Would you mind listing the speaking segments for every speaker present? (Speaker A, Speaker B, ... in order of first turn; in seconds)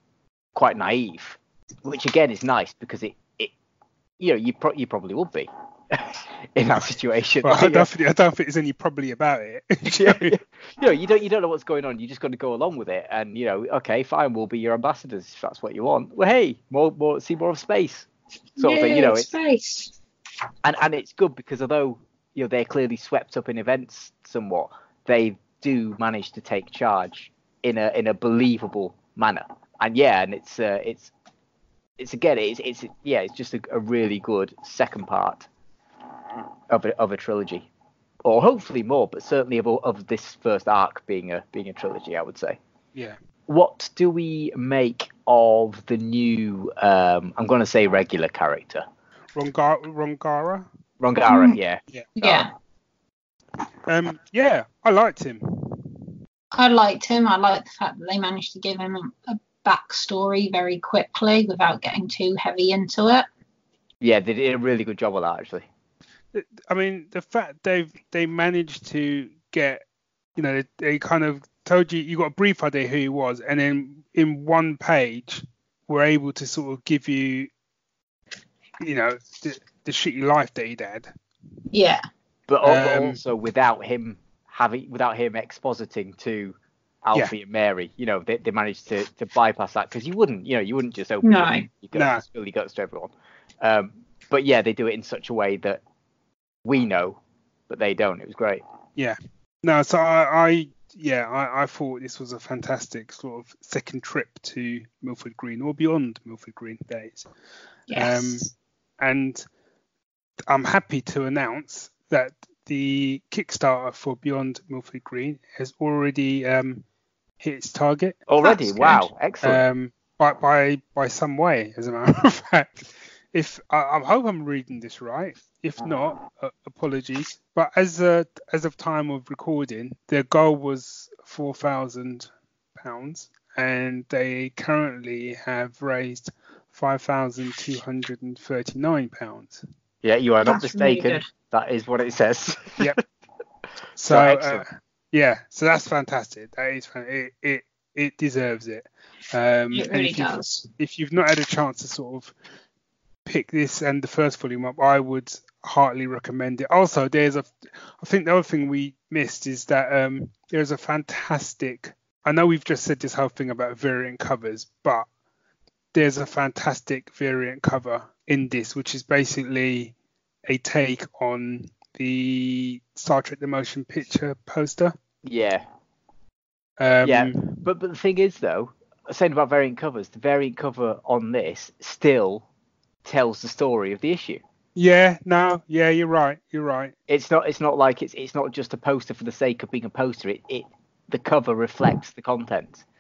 Speaker A: 0.5-3.5, 4.2-7.9, 9.9-18.1, 18.6-19.3, 20.6-31.1, 32.0-35.5, 36.7-37.7, 38.2-42.6, 43.5-48.9, 51.0-52.5, 64.0-65.7, 82.5-95.8, 96.6-98.6, 118.3-119.6, 140.0-143.0, 144.1-144.6, 175.2-175.6, 177.0-182.4, 183.0-184.4, 187.1-192.8
Speaker B: 7.4-10.3, 49.3-50.7, 53.9-56.1, 66.3-69.8, 70.3-77.5, 78.8-81.1, 82.6-83.2, 91.9-92.2, 99.0-107.3, 107.9-108.5, 109.0-109.4, 110.5-116.8, 117.4-118.2, 119.4-139.6, 144.0-152.3, 153.2-165.1, 165.9-169.9, 170.5-174.9, 176.8-177.6, 184.8-186.9
Speaker C: 18.6-19.9, 51.3-51.6, 52.2-52.5, 56.5-63.3, 81.7-82.0, 91.2-91.7, 107.9-108.5, 118.4-119.1, 140.4-141.2, 149.7-150.7